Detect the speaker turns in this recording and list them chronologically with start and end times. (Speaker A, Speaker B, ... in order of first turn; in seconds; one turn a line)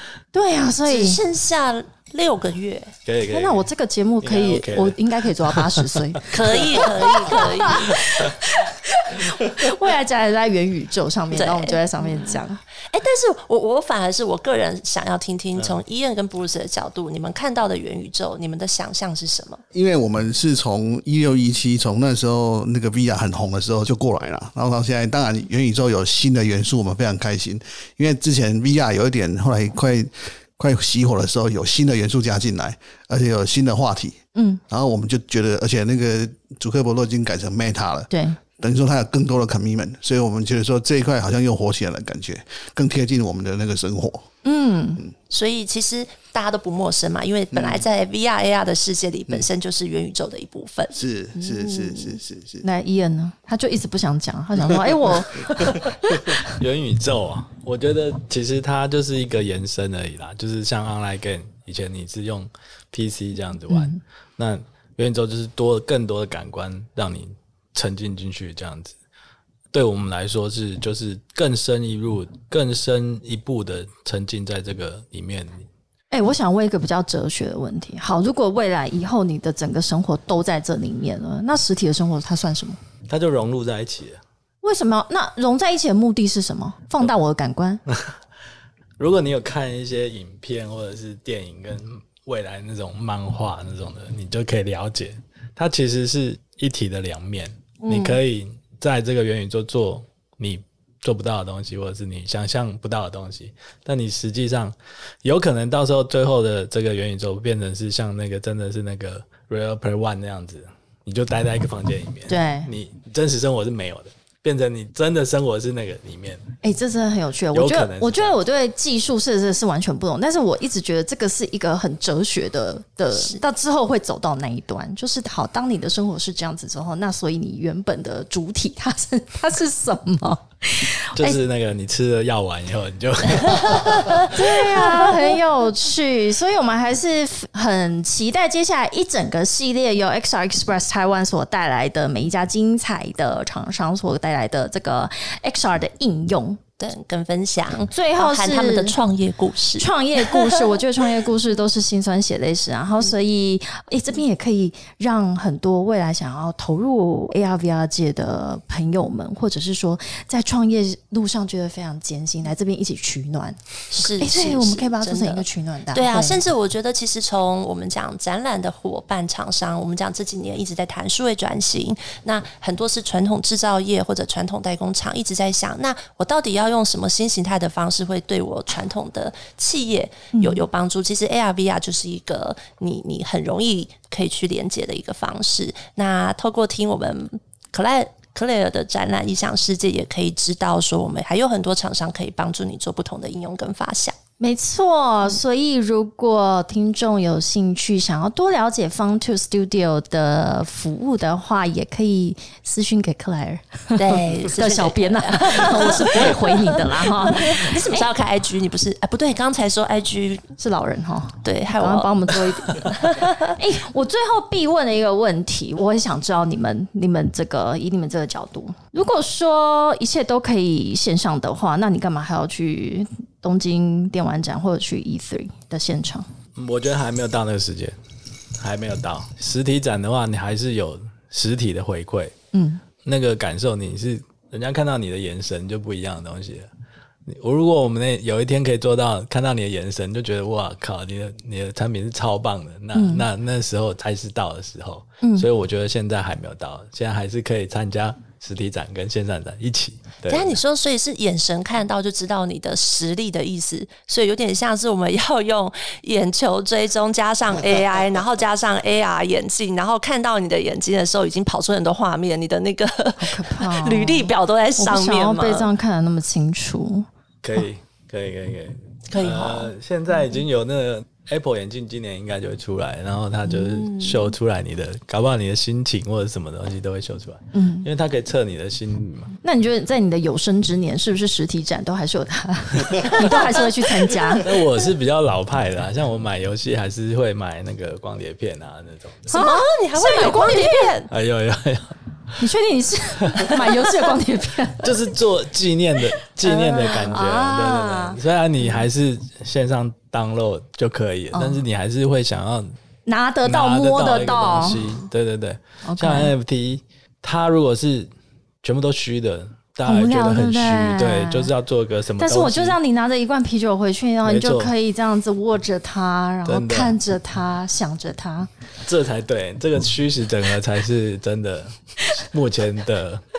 Speaker A: 0.3-1.2
Speaker B: 0.8-2.9
Speaker C: 3.0-3.7
Speaker A: 3.3-12.6
Speaker C: 4.2-6.8
Speaker B: 6.3-8.2
Speaker B: 11.3-19.6
Speaker D: 19.7-34.2
Speaker A: 34.3-34.6
Speaker D: 34.7-44.2
Speaker A: 38.1-38.4
Speaker A: 44.4-45.0
Speaker B: 45.3-50.9
Speaker D: 47.5-47.8
Speaker D: 50.9-52.6
Speaker A: 51.4-56.4
Speaker C: 56.4-69.0
Speaker A: 63.7-64.0
Speaker C: 69.7-75.7
Speaker A: 76.1-82.8
Speaker C: 83.1-84.2
Speaker A: 84.6-87.8
Speaker C: 89.0-116.5
Speaker A: 97.8-98.2
Speaker A: 112.3-112.7
Speaker A: 116.6-131.4
Speaker C: 117.5-118.4
Speaker B: 123.1-123.4
Speaker C: 131.1-134.3
Speaker B: 133.5-135.1
Speaker A: 134.3-146.6
Speaker B: 146.8-150.8
Speaker A: 147.9-149.0
Speaker A: 149.8-166.4
Speaker B: 163.9-194.2
Speaker A: 180.3-180.6
Speaker A: 194.4-208.1
Speaker B: 203.9-210.5
Speaker A: 210.6-226.3
Speaker B: 211.4-213.6
Speaker C: 226.6-227.9
Speaker C: 228.6-232.3
Speaker A: 232.5-232.8
Speaker C: 233.0-236.7
Speaker C: 237.2-250.6
Speaker A: 242.9-243.2
Speaker A: 245.2-245.5
Speaker B: 250.3-265.7
Speaker A: 263.2-267.1
Speaker C: 267.4-279.3
Speaker B: 269.1-269.7
Speaker B: 273.5-274.3
Speaker A: 277.5-277.9
Speaker A: 279.4-284.5
Speaker C: 283.0-283.4
Speaker C: 284.4-289.4
Speaker B: 289.3-291.1
Speaker A: 289.3-291.0
Speaker C: 291.1-291.9
Speaker A: 292.4-294.9
Speaker C: 293.3-293.7
Speaker C: 294.8-302.8
Speaker B: 296.4-297.1
Speaker A: 297.1-298.2
Speaker A: 301.3-301.6
Speaker A: 303.1-304.9
Speaker C: 303.4-308.1
Speaker A: 305.8-306.3
Speaker C: 308.6-312.8
Speaker A: 309.9-311.5
Speaker A: 312.2-318.5
Speaker C: 314.2-314.7
Speaker C: 316.4-317.0
Speaker C: 318.8-323.2